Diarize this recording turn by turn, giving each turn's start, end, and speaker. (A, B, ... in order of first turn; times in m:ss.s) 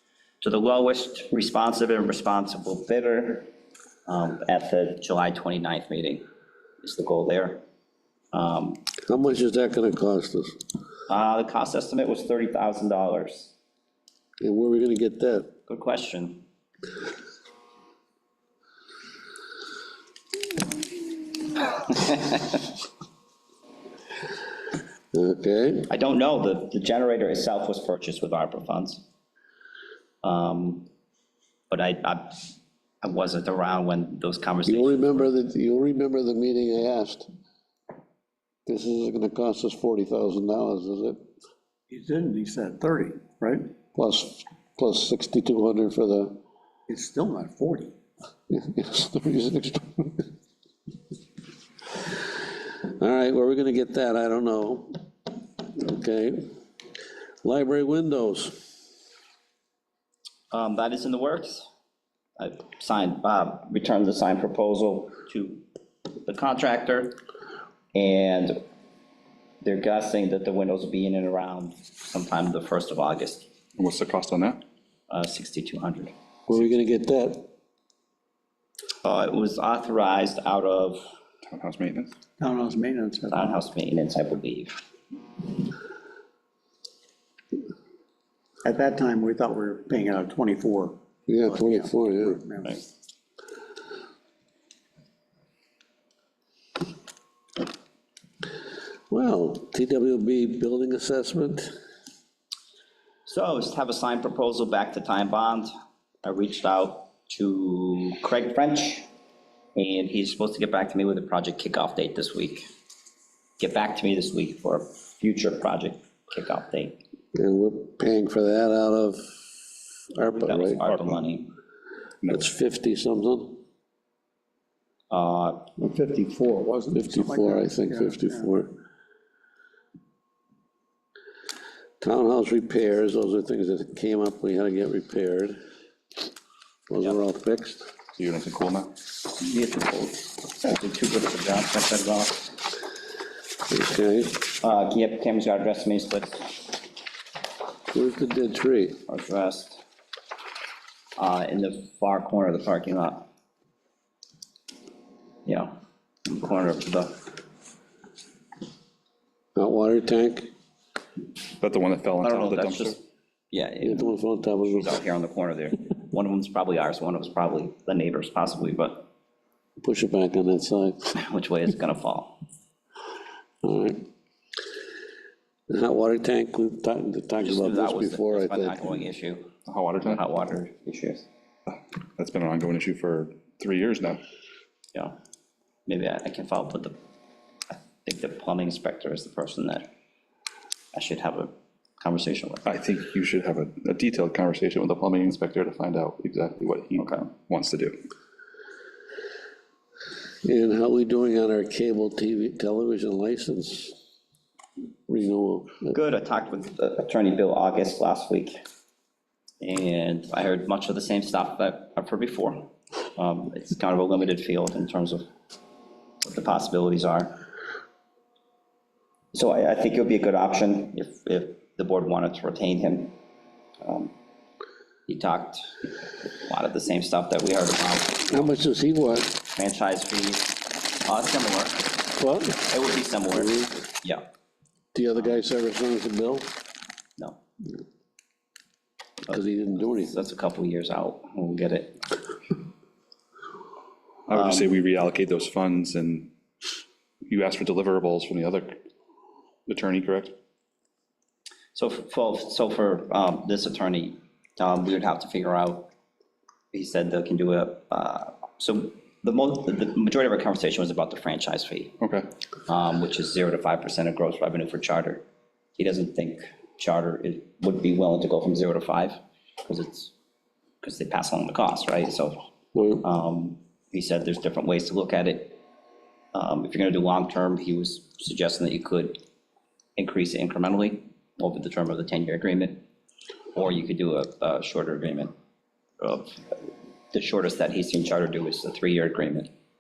0:00.4-0:03.5 A
0:04.1-0:06.2 A
0:06.8-0:07.6 A
0:08.3-0:08.8 A
0:09.1-0:10.6 B
0:11.1-0:13.5 A
0:14.4-0:15.5 B
0:15.7-0:16.5 A
0:21.6-0:22.7 A
0:25.1-0:25.9 B
0:25.9-0:29.0 A
0:30.2-0:30.9 A
0:31.7-0:32.5 A
0:33.0-0:35.3 A
0:34.7-0:37.3 B
0:38.7-0:41.2 B
0:41.9-0:43.7 C
0:44.0-0:46.4 B
0:46.9-0:47.9 C
0:48.5-0:50.3 B
0:52.8-0:55.0 B
0:55.7-0:56.5 B
0:57.4-0:58.7 B
1:00.5-1:01.7 A
1:02.4-1:05.6 A
1:06.2-1:07.2 A
1:07.9-1:08.6 A
1:09.6-1:13.5 A
1:13.8-1:14.6 D
1:15.1-1:16.1 A
1:16.5-1:17.5 B
1:19.0-1:21.1 A
1:21.5-1:22.1 D
1:22.4-1:23.6 C
1:23.3-1:24.8 A
1:28.6-1:32.8 C
1:31.3-1:32.4 B
1:39.1-1:41.7 B
1:43.3-1:45.7 A
1:46.2-1:49.1 A
1:49.8-1:52.7 A
1:53.6-1:57.0 A
1:57.4-1:59.6 B
2:00.1-2:00.8 B
2:00.3-2:01.5 A
2:00.8-2:01.1 D
2:02.3-2:03.6 B
2:05.1-2:05.7 A
2:05.8-2:08.4 C
2:06.9-2:08.7 B
2:12.0-2:15.6 B
2:16.9-2:17.9 B
2:18.2-2:18.9 D
2:19.4-2:22.6 A
2:23.7-2:24.4 B
2:24.6-2:26.6 A
2:27.9-2:29.0 B
2:29.1-2:29.8 A
2:31.2-2:33.3 A
2:35.5-2:37.2 A
2:39.6-2:40.5 B
2:41.6-2:43.0 D
2:42.2-2:43.0 A
2:43.5-2:49.1 A
2:43.8-2:45.0 B
2:49.8-2:51.0 B
2:51.2-2:52.4 A
2:53.6-2:54.1 B
2:55.7-2:58.9 B
2:57.4-2:59.5 A
2:59.7-3:00.2 D
3:00.0-3:01.3 A
3:02.2-3:04.2 D
3:05.9-3:07.0 A
3:07.7-3:09.9 A
3:10.9-3:12.7 A
3:12.6-3:18.0 D
3:17.0-3:17.3 A
3:20.4-3:24.0 B
3:25.1-3:26.0 B
3:25.9-3:28.6 A
3:29.6-3:35.3 A
3:36.2-3:37.3 A
3:39.3-3:43.2 A
3:43.8-3:44.1 A
3:45.1-3:48.6 A
3:48.3-3:49.4 B
3:49.6-3:50.5 A
3:51.0-3:51.8 A
3:52.2-3:52.7 B
3:52.7-3:54.2 A
3:53.4-3:53.7 B
3:54.9-3:56.5 B
3:59.3-4:02.0 A
3:59.3-4:00.2 B
4:04.3-4:06.3 D
4:04.4-4:04.6 A
4:07.3-4:08.8 D
4:09.7-4:10.3 D
4:11.8-4:15.9 A
4:16.7-4:22.0 A
4:22.0-4:22.3 D
4:22.7-4:25.2 A
4:25.8-4:30.1 A
4:30.8-4:32.4 A
4:32.8-4:33.0 B
4:33.0-4:35.6 A
4:36.3-4:39.2 A
4:40.0-4:42.8 A
4:43.6-4:45.3 A
4:46.0-4:46.6 A
4:47.1-4:49.5 A